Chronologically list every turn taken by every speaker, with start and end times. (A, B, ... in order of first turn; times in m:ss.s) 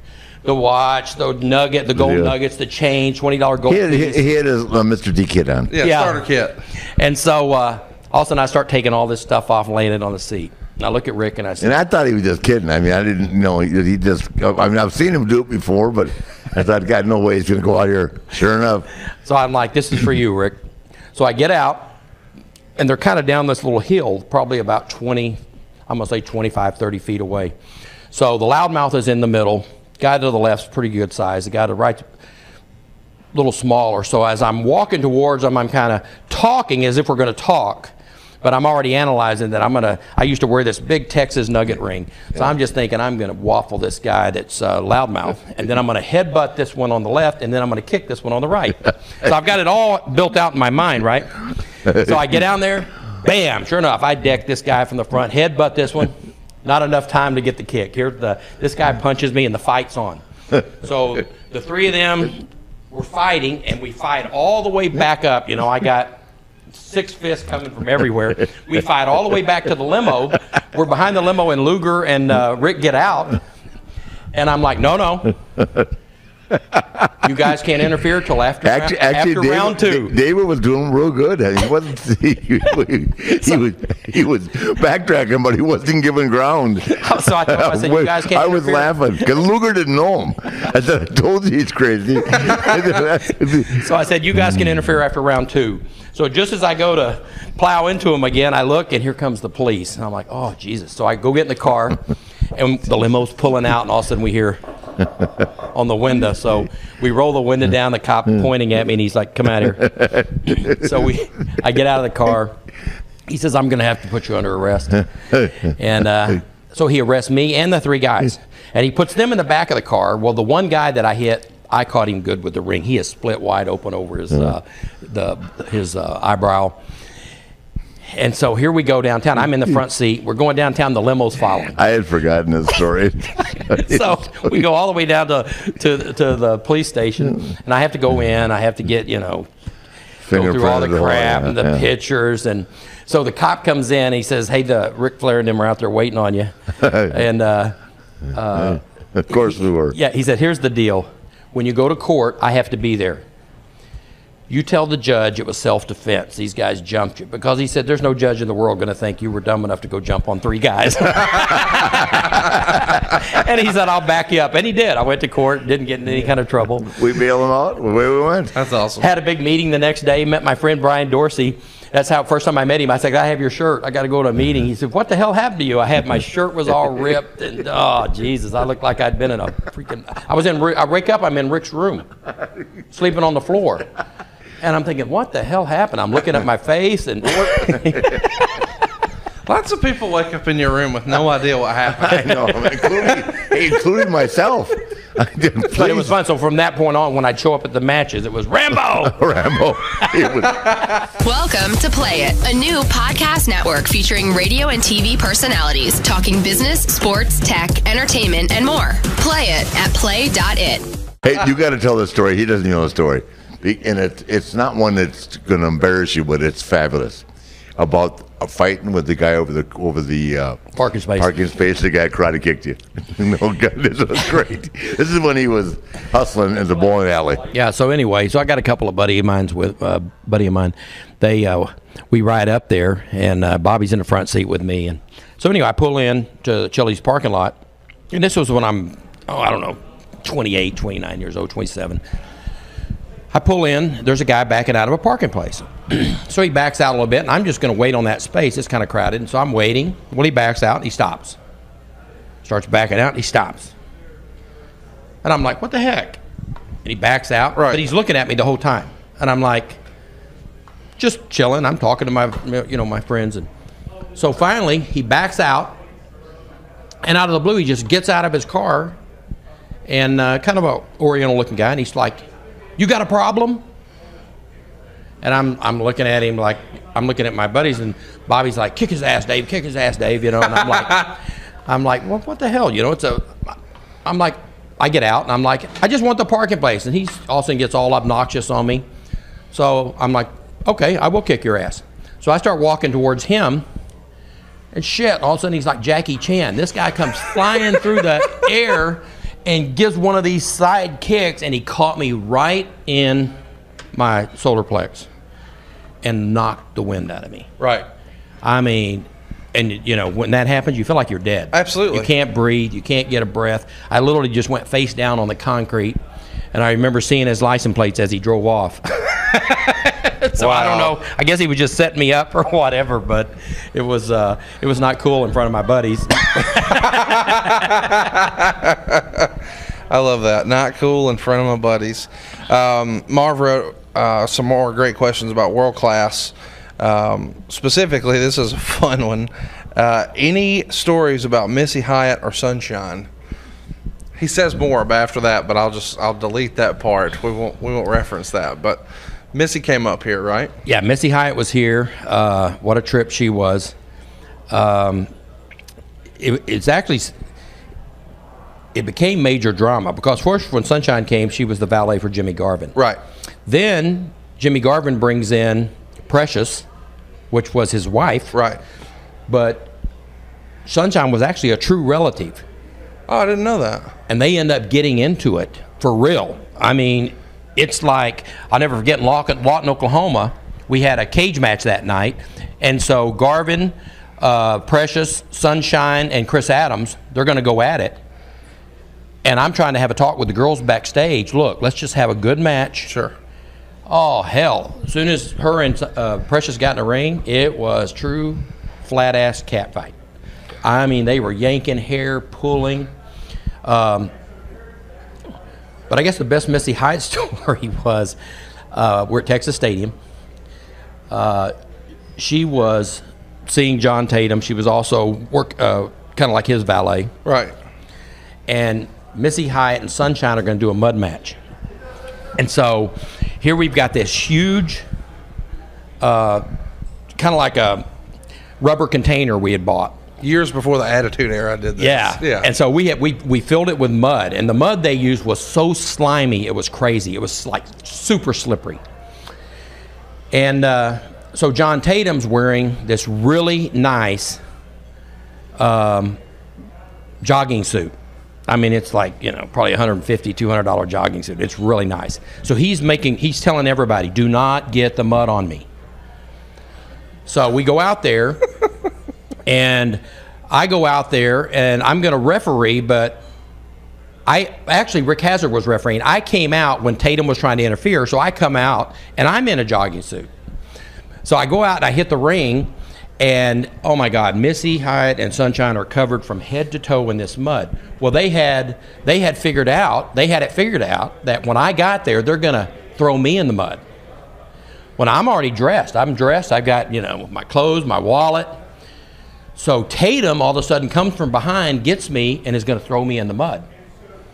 0:00.4-0:04.2 A
0:01.9-0:02.3 B
0:03.6-0:05.7 B
0:05.7-0:06.6 C
0:05.8-0:06.2 A
0:07.0-0:11.8 A
0:11.6-0:18.9 B
0:19.2-0:20.6 A
0:21.1-0:22.0 A
0:22.8-0:27.5 A
0:28.1-0:32.0 A
0:33.3-1:06.2 A
1:06.7-1:13.4 A
1:14.3-1:15.3 A
1:15.6-1:15.8 B
1:16.5-1:17.1 B
1:17.2-1:20.2 A
1:18.6-1:33.9 B
1:26.8-1:29.0 A
1:33.7-1:42.0 A
1:42.5-1:44.6 A
1:45.7-1:52.6 A
1:50.0-1:50.7 B
1:53.3-1:55.0 A
1:55.6-2:06.8 A
2:08.0-2:11.8 A
2:11.7-2:14.6 B
2:13.7-2:19.5 A
2:20.2-2:21.8 B
2:20.3-2:27.8 A
2:26.8-2:27.1 B
2:28.3-2:28.8 A
2:28.5-2:30.0 B
2:29.9-2:33.2 A
2:34.5-2:46.9 A
2:46.8-2:48.5 B
2:48.5-2:49.1 C
2:49.0-3:02.1 A
3:02.9-3:03.8 A
3:04.6-3:08.6 A
3:09.4-3:13.2 C
3:12.1-3:16.1 B
3:15.7-3:19.2 A
3:19.0-3:20.9 B
3:21.2-3:30.9 D
3:31.2-3:37.2 B
3:37.8-3:40.6 B
3:40.8-3:41.3 A
3:41.2-3:47.5 B
3:47.5-3:57.6 A
3:58.1-4:02.0 A
4:03.3-4:11.4 A
4:12.4-4:13.7 A
4:15.2-4:16.2 A
4:16.8-4:19.8 A
4:17.6-4:17.8 C
4:21.0-4:23.5 A
4:24.1-4:25.8 A
4:27.0-4:29.0 A
4:29.9-4:32.2 A
4:32.8-4:33.6 A
4:35.2-4:41.2 A
4:41.7-4:48.8 A
4:49.5-4:53.6 A
4:54.7-5:03.4 A
5:03.9-5:05.1 A
5:06.0-5:07.5 A
5:07.6-5:07.8 C
5:08.4-5:16.0 A
5:11.5-5:12.1 C
5:16.5-5:27.5 A
5:20.2-5:20.9 C
5:26.9-5:29.3 C
5:29.9-5:43.1 C
5:44.2-5:50.5 C
5:50.6-5:53.7 A
5:54.5-5:55.1 A
5:56.2-5:57.1 A
5:58.7-6:02.7 A
6:02.7-6:03.0 C
6:03.4-6:06.6 A
6:07.3-6:08.3 A
6:08.3-6:08.6 C
6:09.3-6:09.7 A
6:10.6-6:12.4 A
6:13.1-6:13.9 C
6:14.1-6:28.0 A
6:29.2-6:32.9 A
6:32.9-6:33.1 C
6:33.9-6:39.9 A
6:40.6-6:42.9 A
6:43.6-6:44.1 A
6:45.9-6:48.2 A
6:48.7-6:49.9 A
6:51.1-6:51.5 A
6:52.2-6:57.1 A
6:57.2-6:57.5 C
6:58.5-7:01.4 A
7:02.4-7:04.8 A
7:06.0-7:06.4 A
7:07.1-7:07.8 A
7:08.6-7:10.0 A
7:10.2-7:12.5 C
7:11.8-7:18.8 A
7:20.3-7:24.4 A
7:25.6-7:26.2 A
7:27.2-7:27.9 A
7:28.5-7:35.7 A
7:37.2-7:38.4 A
7:39.4-7:43.2 A
7:44.3-7:50.3 A
7:51.2-8:03.8 A
8:05.0-8:08.6 A
8:09.6-8:13.6 A